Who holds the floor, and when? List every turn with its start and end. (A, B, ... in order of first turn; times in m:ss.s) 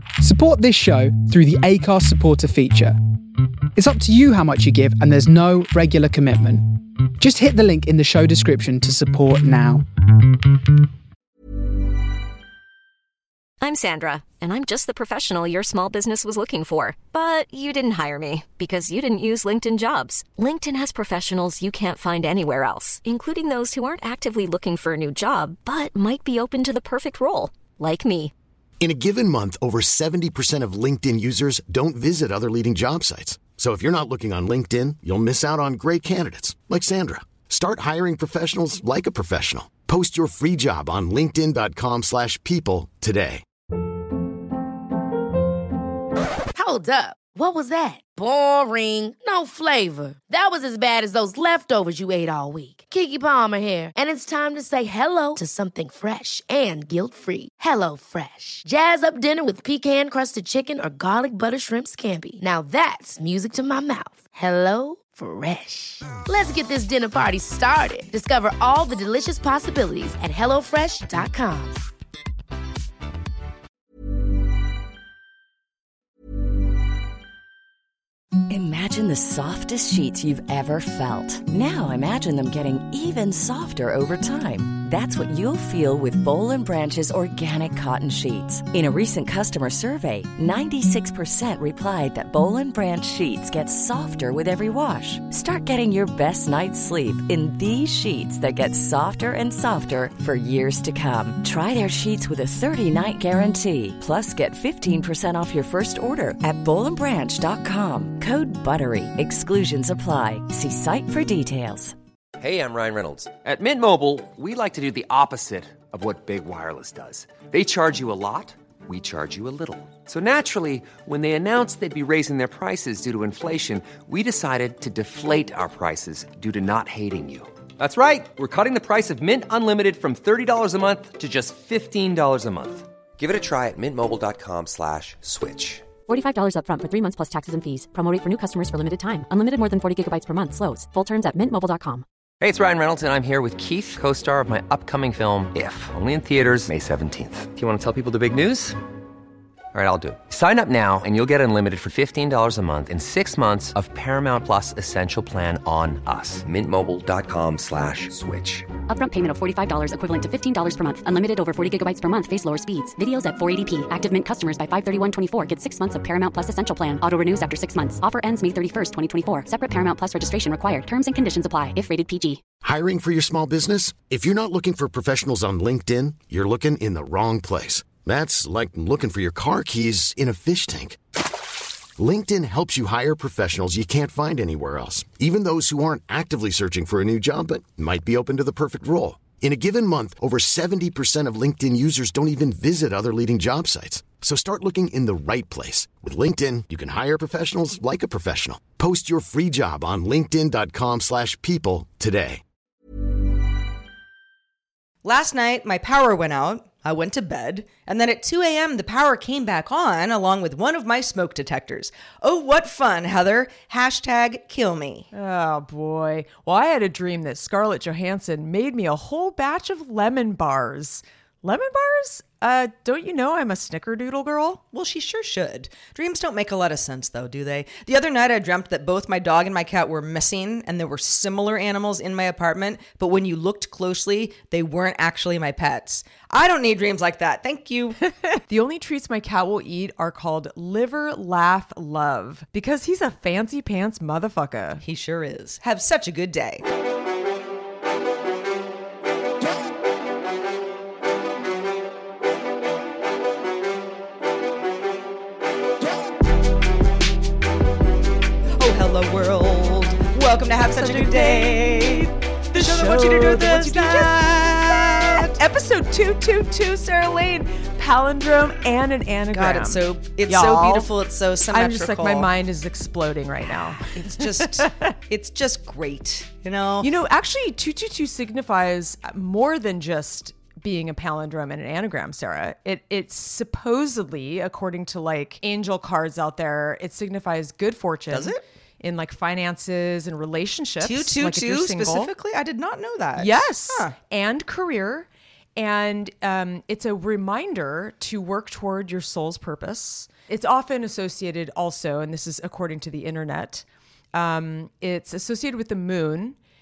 0:00.2-0:03.0 A
0:03.8-0:09.9 A
0:13.6-0:28.3 B
0:28.8-0:43.4 C
0:46.5-1:11.8 D
1:18.5-1:52.0 E
1:52.4-2:15.9 F
2:16.1-2:22.0 G
2:22.4-2:28.8 F
2:29.7-2:38.7 F
2:38.9-2:52.4 G
2:52.6-3:01.0 C
3:02.0-3:22.4 C
3:25.0-3:35.1 H
3:35.1-3:44.6 I
3:44.7-3:58.0 H
3:58.4-4:04.8 I
4:04.8-4:06.6 H
4:18.6-4:25.4 H
4:20.8-4:30.9 I
4:29.3-4:32.3 H
4:31.5-4:34.9 I
4:33.9-4:36.9 H
4:36.8-4:52.1 I
4:48.1-4:48.4 H
4:50.8-4:53.9 H
4:53.2-5:06.4 I